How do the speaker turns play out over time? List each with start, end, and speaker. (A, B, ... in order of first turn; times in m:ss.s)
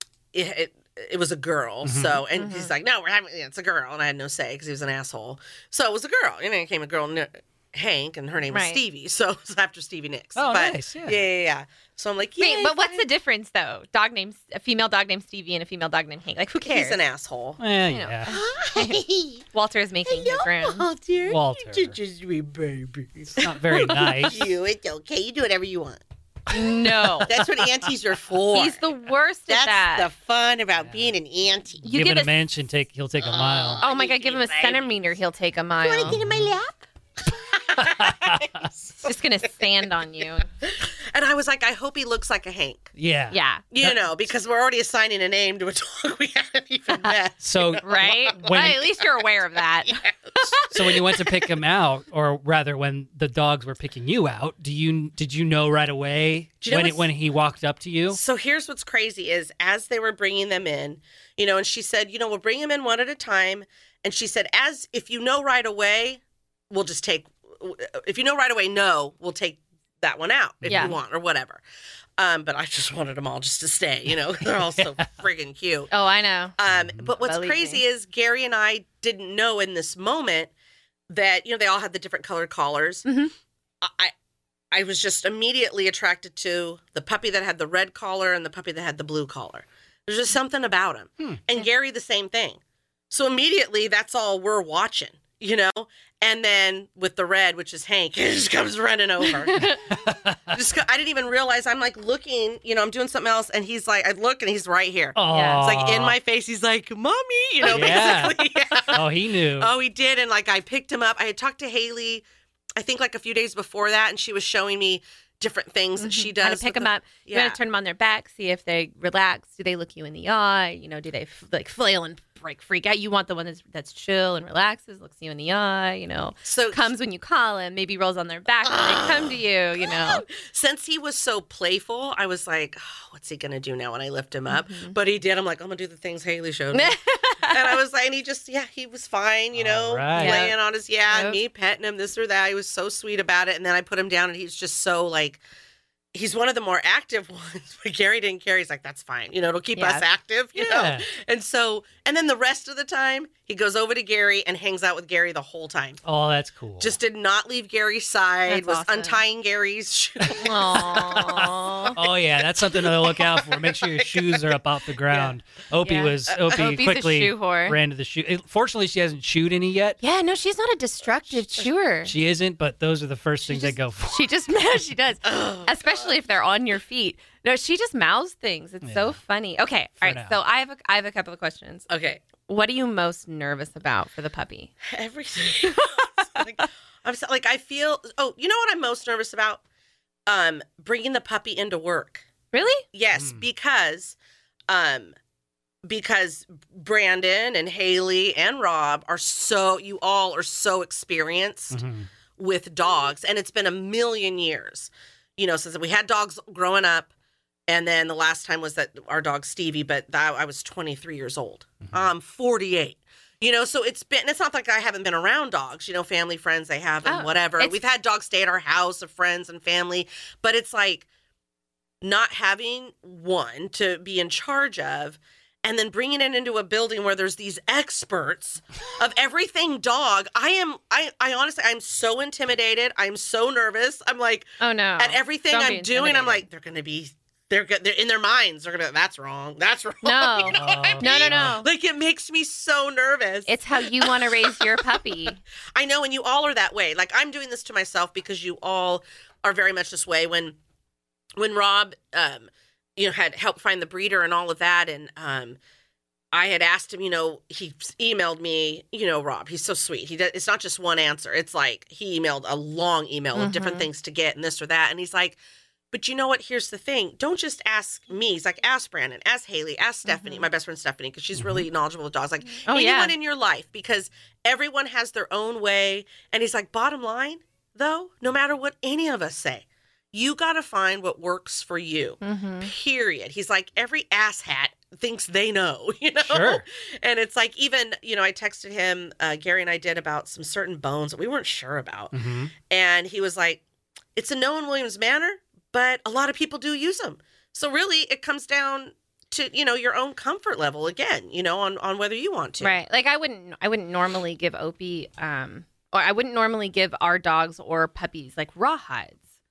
0:00.3-0:13.1 A
0:01.8-0:02.2 B
0:02.4-0:02.7 C
0:08.5-0:08.8 C
0:10.4-0:11.2 B
0:12.4-0:17.0 C
0:16.6-0:17.6 A
0:17.6-0:18.3 B
0:17.9-0:20.9 C
0:18.3-0:19.4 A
0:20.1-0:26.0 A
0:21.3-0:22.0 B
0:23.3-0:24.5 B
0:23.8-0:24.3 C
0:26.5-0:27.3 C
0:27.2-0:28.8 A
0:28.5-0:30.1 C
0:29.5-0:31.8 A
0:30.8-0:31.1 B
0:31.8-0:32.3 C
0:31.8-0:33.8 B
0:33.2-0:34.9 A
0:33.8-0:36.2 C
0:35.8-0:39.1 A
0:36.0-0:36.6 B
0:37.8-0:38.7 B
0:39.0-0:40.5 C
0:40.6-0:42.9 A
0:43.0-0:44.1 B
0:43.3-0:43.6 C
0:43.7-0:49.0 A
0:47.4-0:48.8 B
0:47.8-0:51.0 C
0:49.8-0:51.4 A
0:50.6-0:58.2 B
0:56.6-0:57.1 A
0:58.1-1:11.6 A
1:10.6-1:11.0 B
1:10.7-1:11.0 C
1:12.2-1:15.9 A
1:15.9-1:16.6 C
1:16.6-1:20.5 A
1:16.7-1:17.1 B
1:17.2-1:17.8 C
1:21.1-1:23.0 A
1:23.0-1:23.3 C
1:23.8-1:24.1 A
1:24.7-1:52.2 A
1:39.2-1:40.0 C
1:40.0-1:40.4 B
1:45.2-1:46.2 B
1:45.3-1:45.6 C
1:47.6-1:48.3 C
1:47.7-1:49.7 B
1:52.8-1:57.6 A
1:56.0-2:10.2 C
2:06.4-2:06.9 A
2:08.6-2:17.0 A
2:14.5-2:15.0 C
2:16.7-2:17.8 C
2:17.5-2:25.4 A
2:19.5-2:20.5 B
2:20.2-2:20.6 C
2:21.1-2:21.4 C
2:26.1-2:36.0 A
2:29.8-2:30.0 C
2:30.6-2:31.1 B
2:36.0-2:37.0 B
2:36.8-2:41.5 A
2:38.5-2:39.2 C
2:40.3-2:50.0 B
2:40.4-2:42.0 C
2:42.6-2:44.5 A
2:45.8-2:47.8 C
2:50.0-2:52.1 C
2:52.1-2:54.3 B
2:53.5-3:01.9 C
2:55.2-2:56.1 A
2:58.8-2:59.2 B
3:00.0-3:00.4 B
3:01.9-3:02.2 A
3:02.5-3:04.7 C
3:04.8-3:09.6 A
3:05.6-3:06.7 C
3:10.3-3:12.2 A
3:12.5-3:12.8 C
3:12.9-3:14.2 A
3:13.2-3:13.4 B
3:14.7-3:15.1 A
3:15.8-3:21.8 A
3:21.7-3:22.1 B
3:22.4-3:27.1 A
3:27.7-3:41.1 A
3:37.0-3:37.8 C
3:42.0-4:05.0 A
3:54.6-3:56.5 C
4:00.0-4:01.7 C
4:00.5-4:01.6 B
4:03.5-4:05.4 C
4:05.8-4:10.6 A
4:11.4-4:15.6 A
4:16.3-4:25.4 A
4:23.4-4:23.9 C
4:25.9-4:53.6 A
4:30.1-4:30.5 C
4:31.4-4:31.7 B
4:32.6-4:33.1 C
4:42.2-4:42.7 C
4:46.2-4:46.6 B
4:52.1-4:52.5 B
4:54.2-5:02.8 A
5:02.6-5:09.2 C